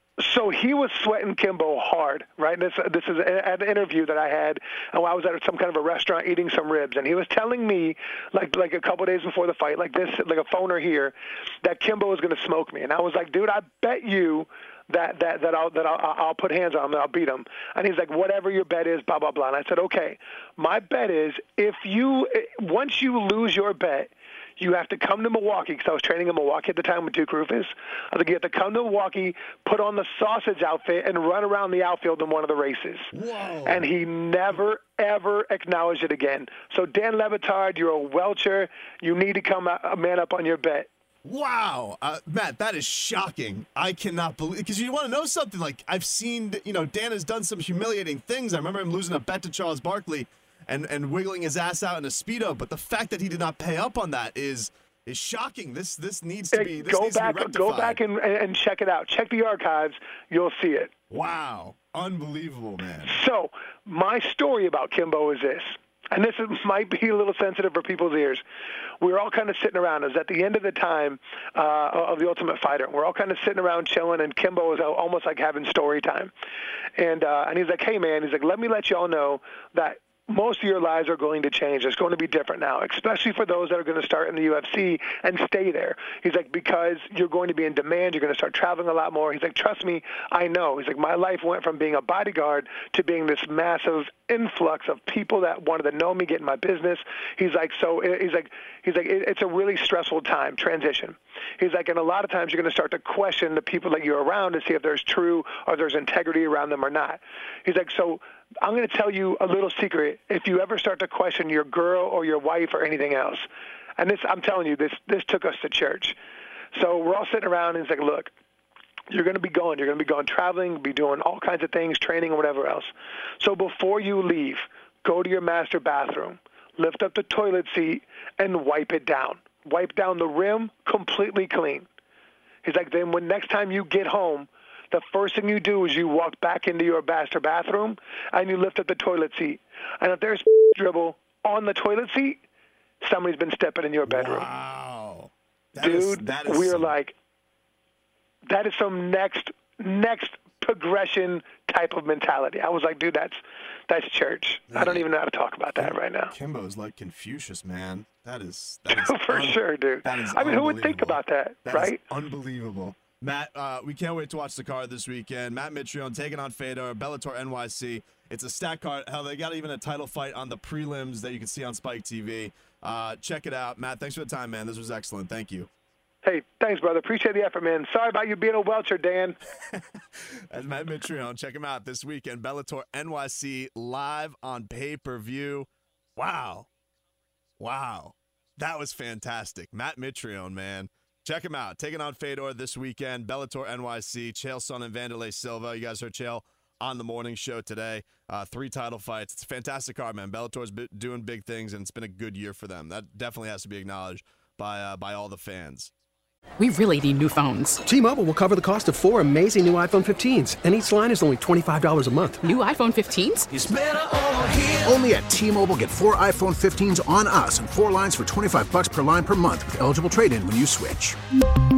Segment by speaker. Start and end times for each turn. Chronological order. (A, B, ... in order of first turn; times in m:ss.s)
0:00.2-0:33.1 A
0:33.1-0:33.8 B
0:33.6-0:40.9 A
0:41.2-0:58.0 B
0:56.5-1:00.9 A
1:01.1-1:03.2 B
1:03.0-1:08.4 A
1:09.0-1:16.3 A
1:17.0-1:53.5 A
1:54.0-1:56.2 A
1:56.7-1:58.3 A
1:59.1-2:11.9 A
2:12.6-2:22.4 A
2:23.0-2:24.5 A
2:24.1-2:26.9 B
2:25.8-2:27.1 A
2:28.5-2:36.3 A
2:34.7-2:35.0 B
2:35.8-2:55.7 B
2:38.9-2:42.0 A
2:56.2-2:59.4 A
3:00.5-3:06.7 B
3:07.6-3:25.9 B
3:26.6-3:27.8 C
3:27.9-3:32.4 D
3:32.4-3:33.5 C
3:33.5-3:41.2 E